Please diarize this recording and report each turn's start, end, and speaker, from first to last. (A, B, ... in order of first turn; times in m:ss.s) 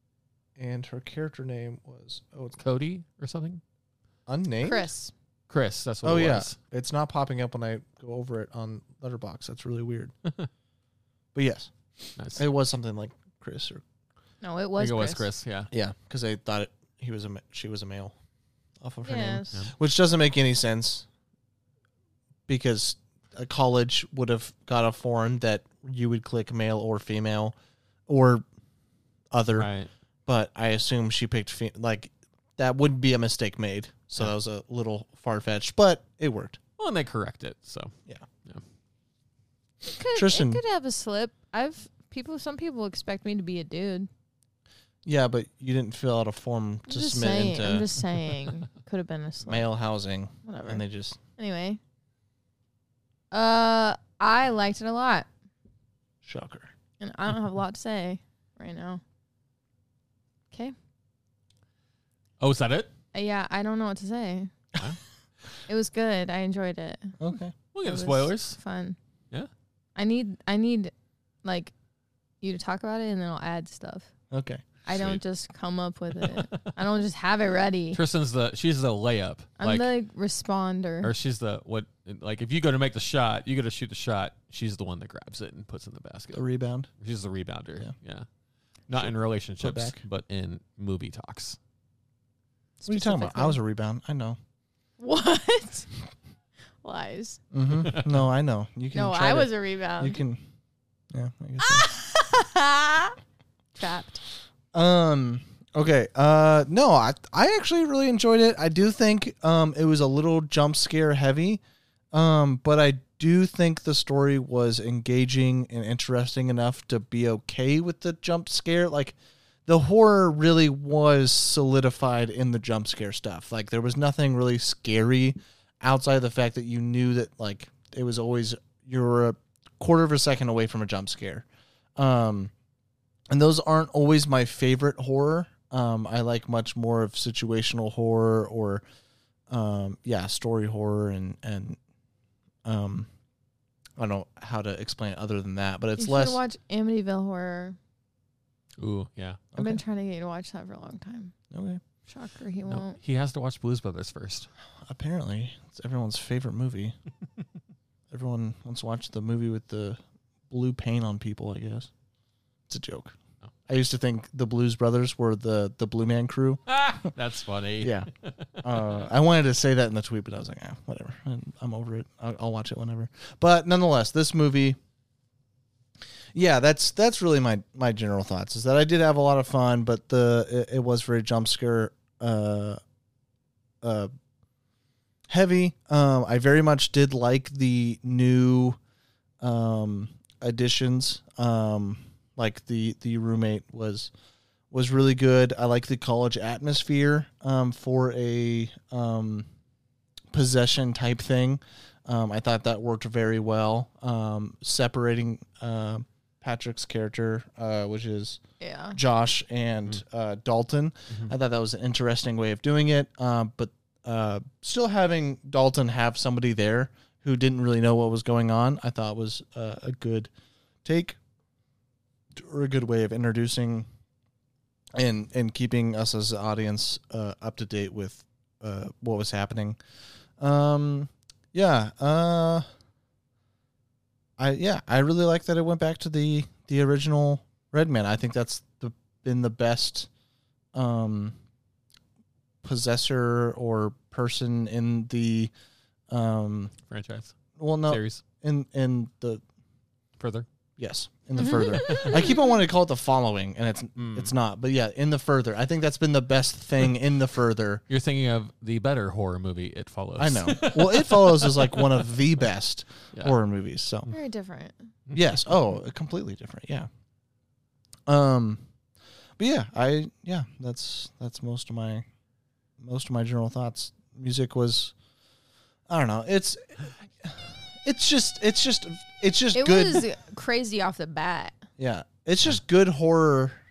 0:00.6-0:02.6 A
0:02.6-0:03.6 B
0:04.3-0:04.9 A
0:04.6-0:05.1 C
0:05.5-0:06.6 B
0:06.0-0:10.1 A
0:11.3-0:13.8 A
0:12.2-0:12.4 B
0:14.4-0:15.3 C
0:14.8-0:15.7 B
0:15.7-0:18.2 A
0:18.8-0:21.1 A
0:19.0-0:19.6 C
0:22.5-0:27.6 A
0:28.1-0:28.4 A
0:29.3-0:29.7 A
0:29.6-0:29.9 B
0:30.3-0:36.6 A
0:36.8-0:37.9 B
0:39.8-0:44.1 C
0:40.2-0:40.6 A
0:45.0-0:47.9 A
0:46.9-0:49.7 C
0:49.4-0:51.2 A
0:50.4-0:50.8 C
0:51.4-0:51.8 C
0:53.3-0:55.3 C
0:56.2-0:56.7 A
0:57.0-0:59.0 C
1:02.4-1:02.9 B
1:03.1-1:04.5 C
1:05.7-1:07.1 C
1:07.2-1:07.6 A
1:07.7-1:08.6 B
1:07.8-1:09.0 C
1:10.0-1:10.9 C
1:11.4-1:11.7 C
1:12.4-1:14.1 C
1:14.3-1:14.6 A
1:14.9-1:18.0 C
1:14.9-1:15.2 B
1:16.2-1:16.7 B
1:17.9-1:19.9 B
1:19.6-1:21.1 C
1:21.0-1:26.4 B
1:26.3-1:26.9 A
1:27.0-1:28.3 B
1:28.9-1:31.6 B
1:28.9-1:30.0 A
1:32.8-1:33.6 C
1:32.9-1:34.4 A
1:35.0-1:35.9 C
1:36.8-1:37.4 C
1:37.5-1:40.4 A
1:38.9-1:40.2 C
1:41.1-1:41.9 A
1:41.6-1:43.2 C
1:43.8-1:44.2 C
1:44.7-1:51.6 A
1:52.1-2:11.5 A
2:12.0-2:12.5 A
2:13.3-2:18.8 A
2:19.5-2:21.8 A
2:22.6-2:23.1 A
2:24.0-2:26.4 A
2:26.0-2:27.8 C
2:28.8-2:29.4 B
2:29.6-2:29.8 A
2:29.6-2:31.3 C
2:31.5-2:31.8 A
2:32.1-2:33.0 C
2:32.7-2:34.5 B
2:34.8-2:37.0 A
2:38.1-2:41.9 A
2:42.7-2:43.2 A
2:43.7-2:46.7 A
2:46.7-2:48.6 B
2:47.8-2:48.1 A
2:48.6-2:54.8 A
2:56.3-3:02.8 A
3:03.8-3:04.1 A
3:05.3-3:08.8 A
3:09.4-3:14.1 A
3:14.7-3:19.5 A
3:20.3-3:28.4 A
3:28.6-3:29.0 C
3:28.9-3:40.3 A
3:40.8-3:41.2 A
3:42.4-3:43.9 A
3:44.9-3:49.8 A
3:50.4-3:52.6 A
3:54.4-4:00.1 A
4:00.7-4:01.4 A
4:02.6-4:05.5 A
4:06.1-4:06.7 A
4:06.9-4:08.2 B
4:07.6-4:09.4 A
4:10.2-4:10.5 B
4:10.8-4:17.8 A
4:11.4-4:12.5 C
4:11.9-4:12.2 B
4:14.0-4:14.3 B
4:17.9-4:22.3 B
4:20.2-4:24.1 A
4:24.1-4:24.9 C
4:25.1-4:26.9 A
4:28.1-4:28.6 A
4:29.4-4:32.0 A
4:32.8-4:34.9 A
4:35.9-4:40.0 A
4:39.5-4:41.6 C
4:41.8-4:43.6 A